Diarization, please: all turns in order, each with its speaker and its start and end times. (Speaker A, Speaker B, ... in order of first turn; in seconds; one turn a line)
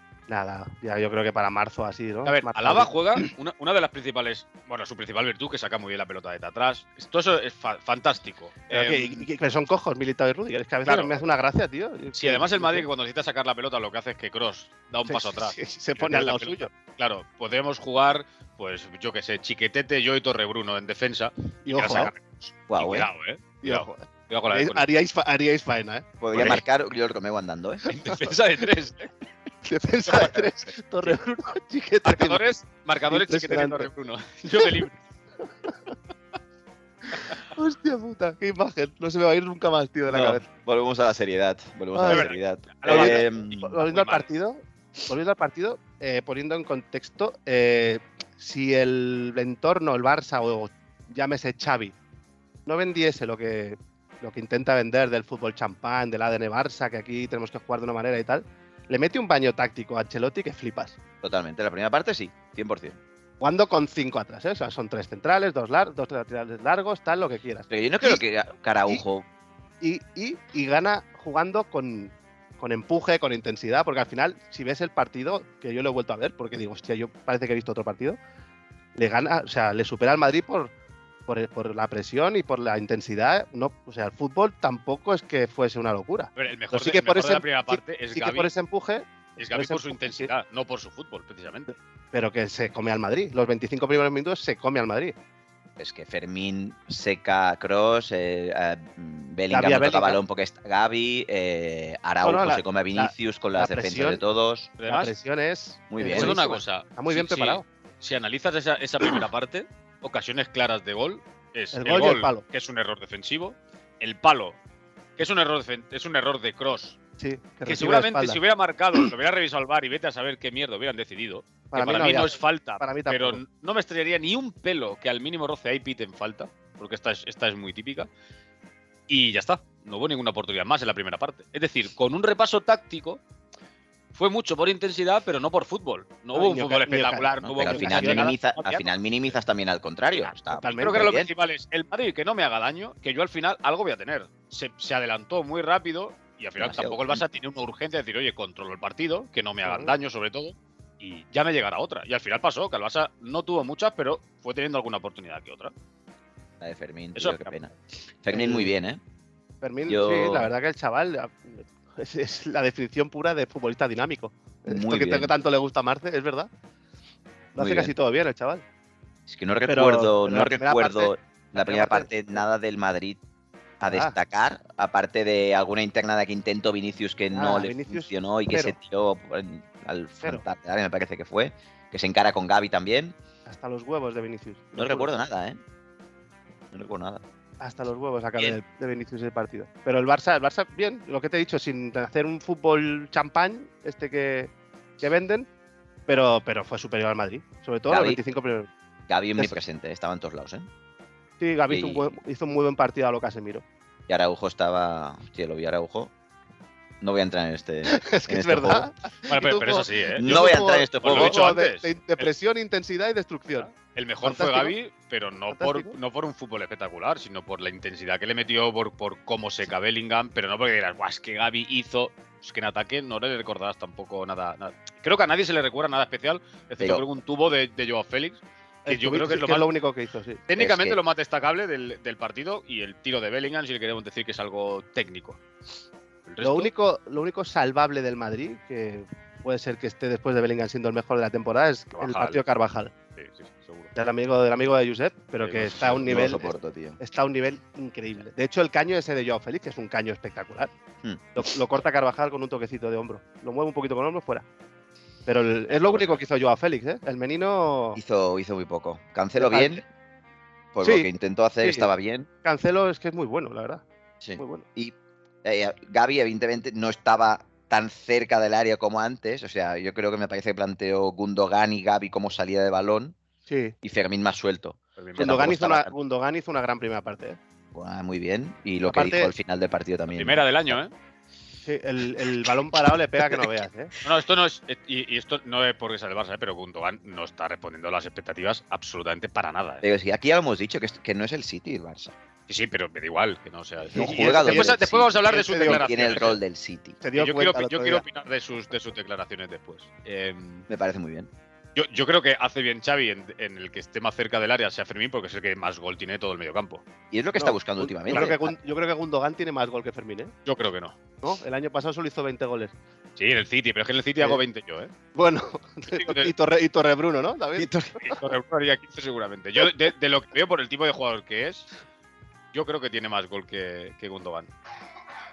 Speaker A: 0.3-3.3
Speaker B: 2.3-9.2
Speaker A: 8.7-12.8
Speaker B: 10.9-11.2
Speaker B: 12.2-24.9
Speaker A: 15.1-16.7
Speaker A: 21.7-22.1
Speaker C: 22.7-23.1
Speaker A: 23.6-26.1
Speaker C: 26.2-27.9
Speaker B: 26.3-26.6
Speaker B: 27.9-29.1
Speaker A: 28.0-28.3
Speaker A: 29.6-32.4
Speaker B: 30.1-30.7
Speaker B: 32.0-35.0
Speaker A: 33.1-33.9
Speaker A: 34.5-34.8
Speaker A: 35.6-35.9
Speaker A: 37.2-40.5
Speaker C: 40.1-43.8
Speaker A: 41.9-42.3
Speaker B: 42.1-44.3
Speaker A: 42.9-52.0
Speaker A: 52.7-61.0
Speaker C: 61.2-63.0
Speaker A: 63.4-68.2
Speaker C: 67.7-69.2
Speaker A: 69.8-78.2
Speaker A: 79.0-80.7
Speaker A: 81.3-90.3
Speaker B: 86.4-88.5
Speaker B: 89.4-91.7
Speaker A: 92.1-95.2
Speaker C: 95.8-104.7
Speaker A: 99.5-100.2
Speaker A: 102.2-104.2
Speaker B: 104.8-105.2
Speaker A: 104.9-107.6
Speaker C: 105.9-106.4
Speaker B: 106.1-114.6
Speaker A: 111.7-112.4
Speaker B: 115.2-117.0
Speaker A: 117.2-118.4
Speaker B: 117.7-128.1
Speaker A: 121.7-123.4
Speaker B: 129.1-133.2
Speaker B: 134.1-138.9
Speaker A: 136.3-138.3
Speaker C: 137.4-141.3
Speaker B: 140.1-155.7
Speaker A: 140.5-141.1
Speaker C: 146.6-147.2
Speaker A: 149.6-149.9
Speaker C: 156.6-159.0
Speaker B: 157.2-157.5
Speaker A: 158.3-158.7
Speaker A: 159.6-166.5
Speaker C: 159.9-160.5
Speaker C: 164.7-165.3
Speaker A: 167.6-168.6
Speaker C: 167.6-167.9
Speaker C: 169.3-173.2
Speaker A: 169.7-172.4
Speaker C: 173.8-183.2
Speaker A: 173.9-174.2
Speaker A: 177.3-178.8
Speaker A: 183.5-185.1
Speaker C: 184.8-185.6
Speaker C: 186.7-187.2
Speaker A: 187.6-195.5
Speaker A: 196.1-198.7
Speaker C: 197.9-198.2
Speaker C: 199.1-200.7
Speaker A: 201.4-203.6
Speaker C: 201.7-202.1
Speaker C: 204.1-206.1
Speaker C: 207.0-208.9
Speaker A: 207.8-213.7
Speaker B: 209.3-210.4
Speaker C: 210.2-211.4
Speaker B: 211.0-212.3
Speaker B: 213.6-229.7
Speaker A: 214.2-214.8
Speaker A: 215.5-215.9
Speaker C: 226.8-227.0
Speaker A: 228.9-230.4
Speaker B: 230.5-235.4
Speaker C: 230.6-231.0
Speaker B: 236.3-236.7
Speaker A: 236.4-242.9
Speaker B: 242.0-242.4
Speaker B: 243.2-243.9
Speaker A: 243.9-250.7
Speaker B: 245.4-246.3
Speaker C: 245.8-247.0
Speaker C: 251.0-251.3
Speaker A: 251.4-254.4
Speaker A: 255.3-258.0
Speaker B: 255.7-256.2
Speaker C: 257.9-259.8
Speaker A: 259.4-259.8
Speaker C: 260.7-262.3
Speaker A: 260.8-261.1
Speaker A: 261.6-261.9
Speaker A: 262.4-263.8
Speaker C: 264.2-273.1
Speaker A: 264.4-264.6
Speaker A: 273.5-273.8
Speaker C: 273.8-275.9
Speaker B: 275.0-275.5
Speaker A: 275.2-277.4
Speaker C: 277.7-280.8
Speaker A: 278.9-279.3
Speaker B: 280.1-280.9
Speaker A: 281.6-283.9
Speaker B: 284.0-289.8
Speaker C: 289.8-292.1
Speaker B: 292.5-296.4
Speaker C: 293.9-297.0
Speaker A: 293.9-295.9
Speaker A: 297.0-298.0
Speaker B: 297.1-300.7
Speaker C: 300.7-301.3
Speaker B: 301.8-306.8
Speaker C: 307.1-308.5
Speaker A: 307.4-310.3
Speaker B: 310.5-311.0
Speaker A: 311.2-312.7
Speaker B: 313.2-314.9
Speaker A: 315.1-318.2
Speaker B: 315.9-316.3
Speaker C: 317.6-317.9
Speaker B: 318.0-321.7
Speaker B: 322.5-324.5